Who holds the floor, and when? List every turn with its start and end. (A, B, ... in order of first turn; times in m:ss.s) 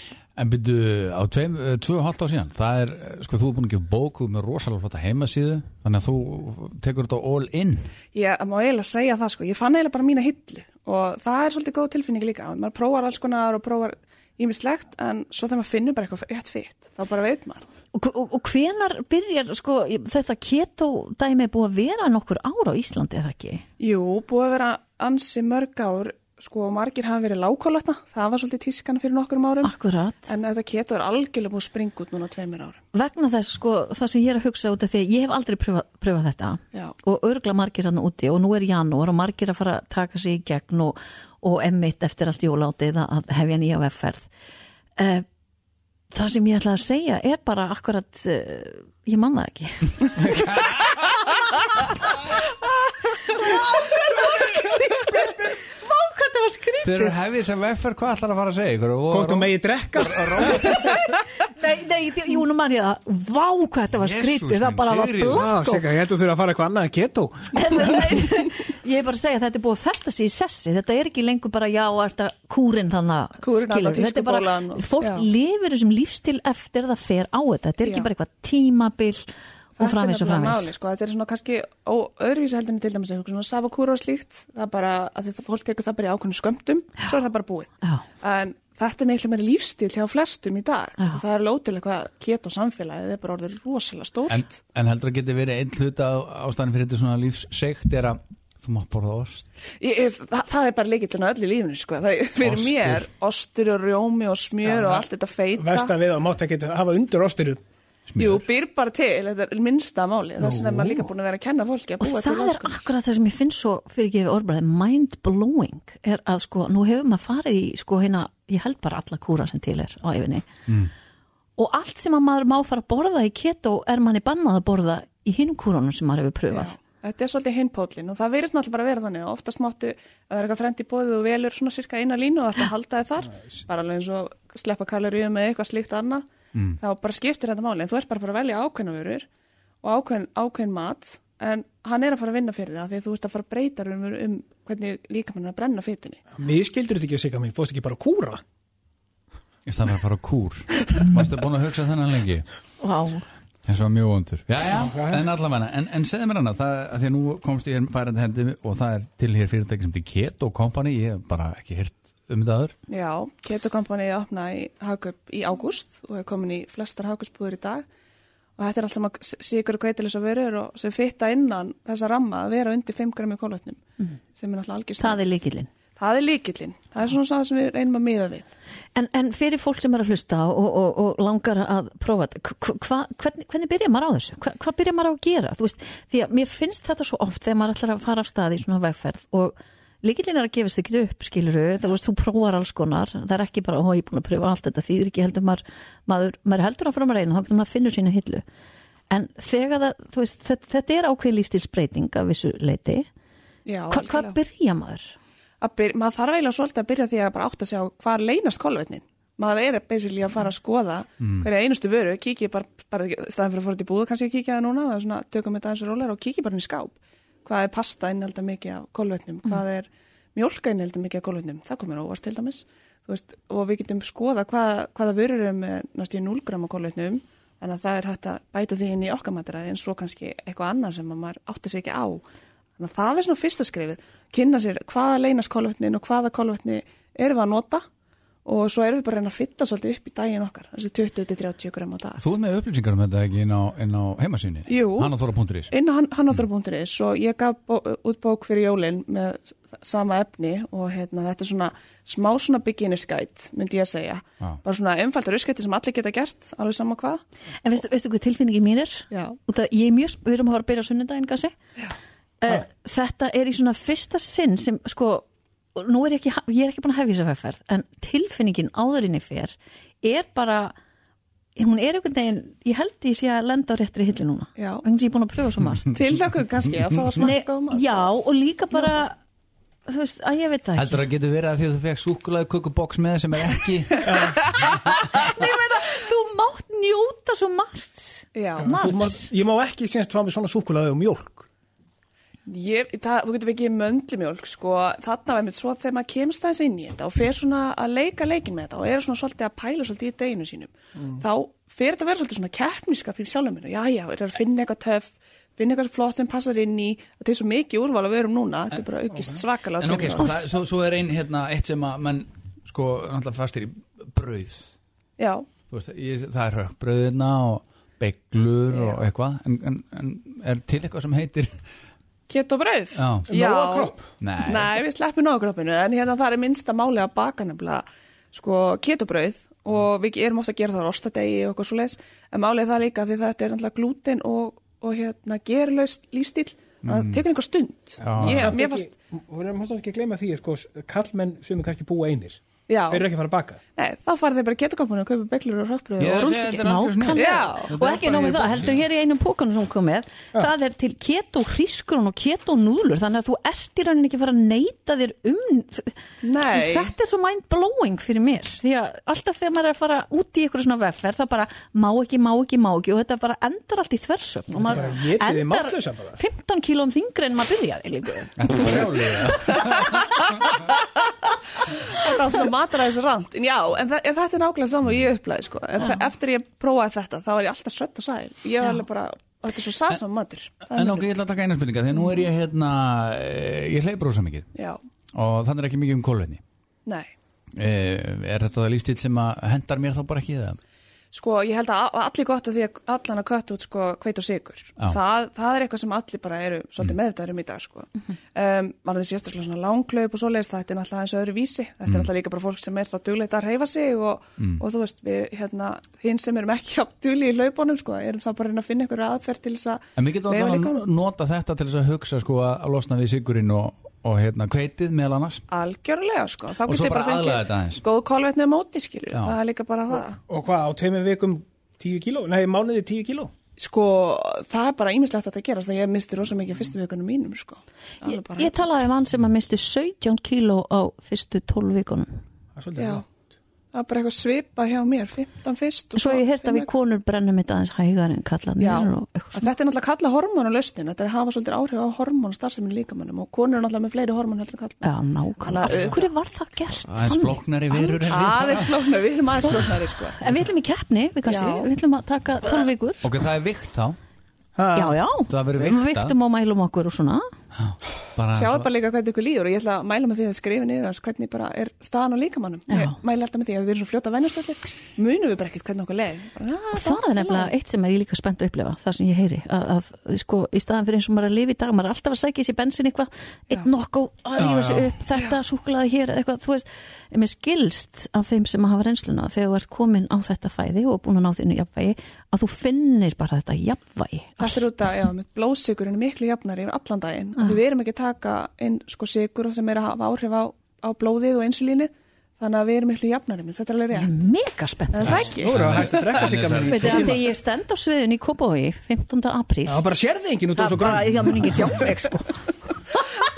0:00.4-0:07.9 A
0:08.1-0:17.6 B
0:17.9-0:23.6 C
0:23.8-0:29.7 B
0:29.6-0:30.3 C
0:30.3-0:32.8 B
0:32.9-0:44.3 C
0:45.0-0:45.2 C
0:46.1-0:50.2 C
0:50.2-0:50.7 A
0:53.3-0:57.2 C
0:56.8-1:01.0 A
0:59.1-1:00.7 D
1:00.7-1:05.8 C
1:04.0-1:05.5 A
1:05.3-1:07.5 D
1:07.5-1:20.7 C
1:13.4-1:15.3 B
1:17.8-1:18.1 B
1:19.8-1:34.5 B
1:34.3-1:39.4 A
1:39.8-1:45.9 B
1:42.4-1:43.0 A
1:44.7-1:45.0 D
1:45.6-1:47.6 D
1:48.1-1:48.4 A
1:48.2-1:52.8 B
1:50.4-1:51.0 D
1:52.0-2:00.5 C
2:01.6-2:06.7 C
2:06.5-2:16.2 B
2:16.8-2:19.3 B
2:19.8-2:26.2 B
2:26.4-2:28.4 D
2:29.6-2:32.4 A
2:32.8-2:33.2 C
2:33.6-2:42.8 A
2:34.7-2:35.2 D
2:42.9-2:47.8 B
2:48.6-2:53.8 B
2:54.3-2:55.3 B
2:55.0-2:55.7 C
2:56.0-2:58.5 B
2:58.9-3:18.4 C
3:19.1-3:23.1 C
3:23.6-3:24.4 B
3:23.9-3:25.1 C
3:25.6-3:52.2 B
3:31.2-3:31.4 A
3:52.8-3:57.8 B
3:58.4-4:02.2 B
4:02.2-4:05.7 A
4:04.7-4:05.1 B
4:05.7-4:17.2 B
4:17.6-4:21.5 C
4:19.1-4:19.4 B
4:22.4-4:30.8 C
4:31.6-4:36.0 C
4:34.6-4:34.8 B
4:35.9-4:38.1 B
4:37.2-4:39.2 C
4:39.9-4:41.0 C
4:40.8-4:44.1 A
4:44.1-4:44.4 D
4:45.0-4:49.3 C
4:48.3-4:48.8 B
4:48.6-4:51.5 D
4:52.5-5:10.3 B
5:09.8-5:14.7 A
5:15.2-5:15.4 B
5:15.7-5:21.6 A
5:18.7-5:19.0 B
5:22.3-5:38.9 B
5:23.0-5:23.3 A
5:23.3-5:24.0 D
5:24.2-5:24.7 A
5:36.8-5:37.2 A
5:38.0-5:38.5 A
5:38.2-5:43.6 D
5:42.7-5:43.0 B
5:43.8-5:47.8 B
5:46.0-5:48.8 A
5:46.6-5:56.0 C
5:56.2-5:56.9 B
5:56.5-6:08.4 C
6:04.5-6:06.2 D
6:08.4-6:10.2 A
6:11.9-6:21.1 B
6:20.7-6:24.5 A
6:25.1-6:26.4 A
6:26.9-6:27.1 B
6:27.6-6:30.6 A
6:31.1-6:50.8 B
6:50.0-6:55.4 A
6:55.5-7:00.2 B
6:56.6-6:57.8 A
7:00.3-7:03.3 D
7:03.6-7:08.7 B
7:08.0-7:12.2 C
7:12.6-7:13.0 D
7:12.8-7:13.0 B
7:13.7-7:16.7 B
7:16.0-7:19.5 C
7:18.6-7:26.1 B
7:24.8-7:28.2 C
7:26.9-7:28.7 A
7:28.1-7:30.4 B
7:30.2-7:33.0 C
7:31.2-7:31.7 B
7:33.0-7:34.0 A
7:34.6-7:35.0 D
7:34.7-7:37.2 C
7:35.3-7:36.1 A
7:37.5-7:38.7 A
7:38.3-7:47.5 B
7:42.7-7:43.0 C
7:46.7-8:04.6 C
7:54.4-7:55.0 A
8:04.4-8:14.1 B
8:13.9-8:15.3 C
8:14.9-8:15.6 B
8:15.0-8:17.1 A
8:15.3-8:17.2 D
8:16.6-8:19.8 C
8:19.6-8:22.2 D
8:20.5-8:22.3 C